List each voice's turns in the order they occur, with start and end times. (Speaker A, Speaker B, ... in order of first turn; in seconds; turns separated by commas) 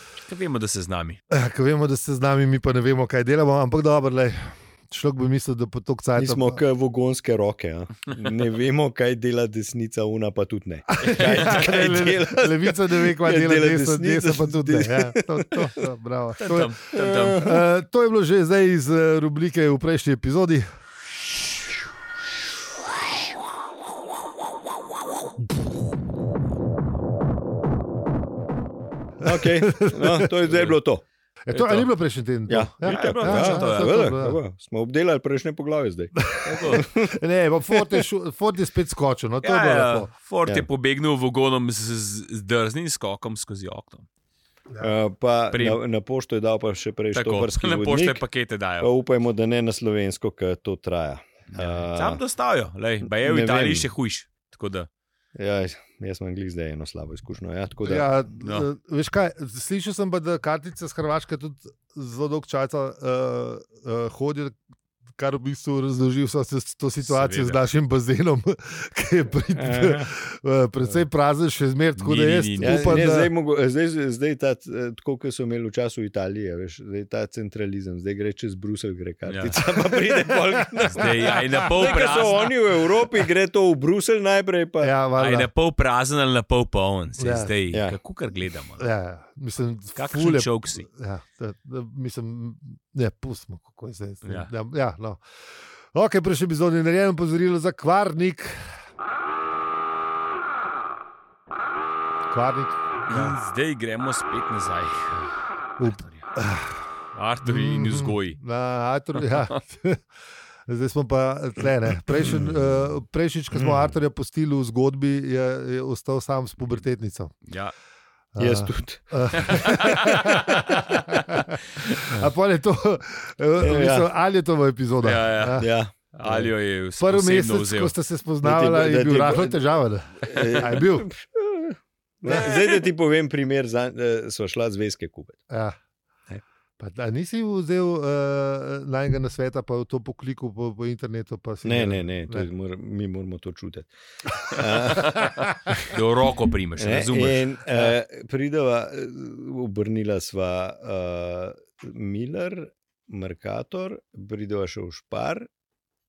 Speaker A: 0.2-1.2, Speaker B: 1.3-6.6, Speaker C: 6.2-15.7, Speaker B: 10.9-16.8, Speaker A: 11.1-11.6, Speaker A: 16.4-17.6, Speaker C: 16.9-17.6, Speaker B: 17.3-20.7, Speaker C: 29.2-31.0, Speaker B: 29.2-30.3, Speaker A: 30.5-30.7, Speaker B: 31.5-34.4, Speaker A: 31.5-31.9, Speaker C: 32.5-36.1, Speaker A: 32.8-34.1, Speaker B: 36.1-40.1, Speaker A: 36.4-36.9, Speaker C: 36.6-37.1, Speaker A: 39.4-44.1, Speaker C: 44.8-48.2, Speaker A: 45.5-45.8, Speaker A: 47.1-48.9, Speaker C: 48.8-52.2, Speaker A: 51.5-54.9, Speaker C: 53.0-53.9, Speaker C: 55.4-58.1, Speaker B: 57.8-64.6, Speaker A: 58.4-58.7, Speaker B: 65.2-73.3, Speaker A: 67.0-67.6, Speaker C: 69.5-70.1, Speaker A: 72.0-72.9, Speaker C: 72.6-84.9, Speaker A: 79.3-79.5, Speaker B: 79.9-82.0, Speaker A: 80.9-82.6, Speaker B: 84.8-85.5, Speaker A: 85.2-88.8, Speaker B: 87.2-87.5, Speaker C: 87.7-88.0, Speaker B: 88.8-95.2, Speaker A: 90.0-90.8, Speaker A: 94.2-94.5, Speaker B: 95.9-98.8, Speaker B: 102.3-103.4, Speaker A: 103.1-106.3, Speaker B: 105.8-106.9, Speaker A: 107.1-108.4, Speaker B: 107.4-110.0, Speaker A: 109.2-109.5, Speaker B: 110.7-117.3, Speaker A: 117.5-117.7, Speaker B: 118.3-125.7, Speaker C: 118.4-120.6, Speaker A: 119.4-121.1, Speaker C: 123.6-124.1, Speaker A: 125.0-127.9, Speaker C: 125.6-126.5, Speaker B: 127.0-131.1, Speaker C: 128.4-129.6, Speaker C: 130.2-135.4, Speaker B: 135.5-135.8, Speaker B: 136.8-142.5, Speaker C: 141.6-145.9, Speaker A: 145.0-147.4, Speaker B: 145.1-145.7, Speaker C: 146.8-155.5